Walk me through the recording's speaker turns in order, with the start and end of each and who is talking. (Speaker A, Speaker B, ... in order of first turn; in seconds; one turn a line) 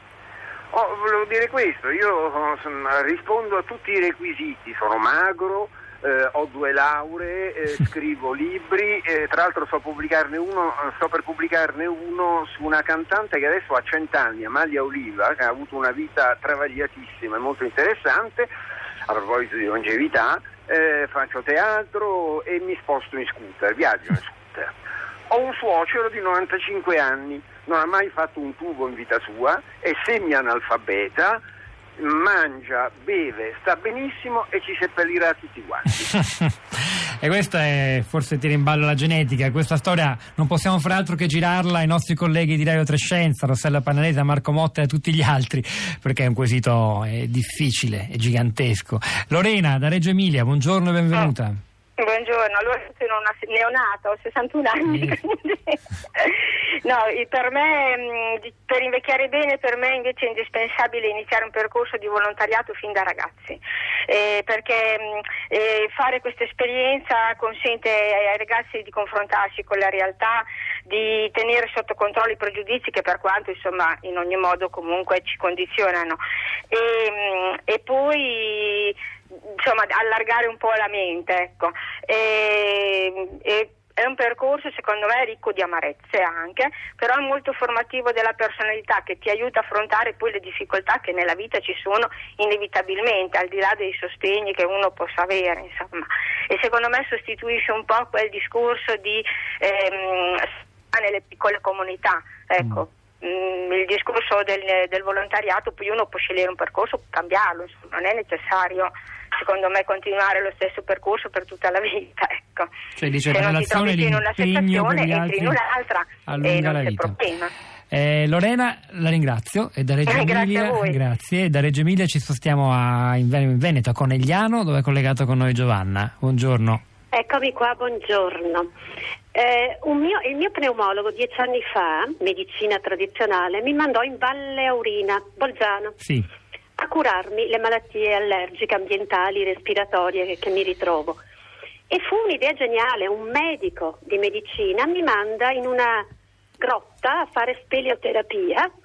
Speaker A: 0.7-18.5
Speaker A: 19.1-24.7
Speaker A: 25.3-31.4
Speaker A: 32.0-36.0
Speaker B: 36.1-36.5
Speaker B: 37.2-51.6
Speaker C: 52.0-76.2
Speaker C: 76.7-79.0
Speaker C: 79.6-112.7
Speaker B: 113.0-115.6
Speaker C: 113.3-117.5
Speaker B: 116.3-117.2
Speaker B: 117.9-126.8
Speaker C: 120.1-121.0
Speaker D: 127.1-128.7
Speaker D: 129.3-135.9
Speaker D: 136.8-141.2
Speaker D: 141.9-146.0
Speaker D: 146.6-148.7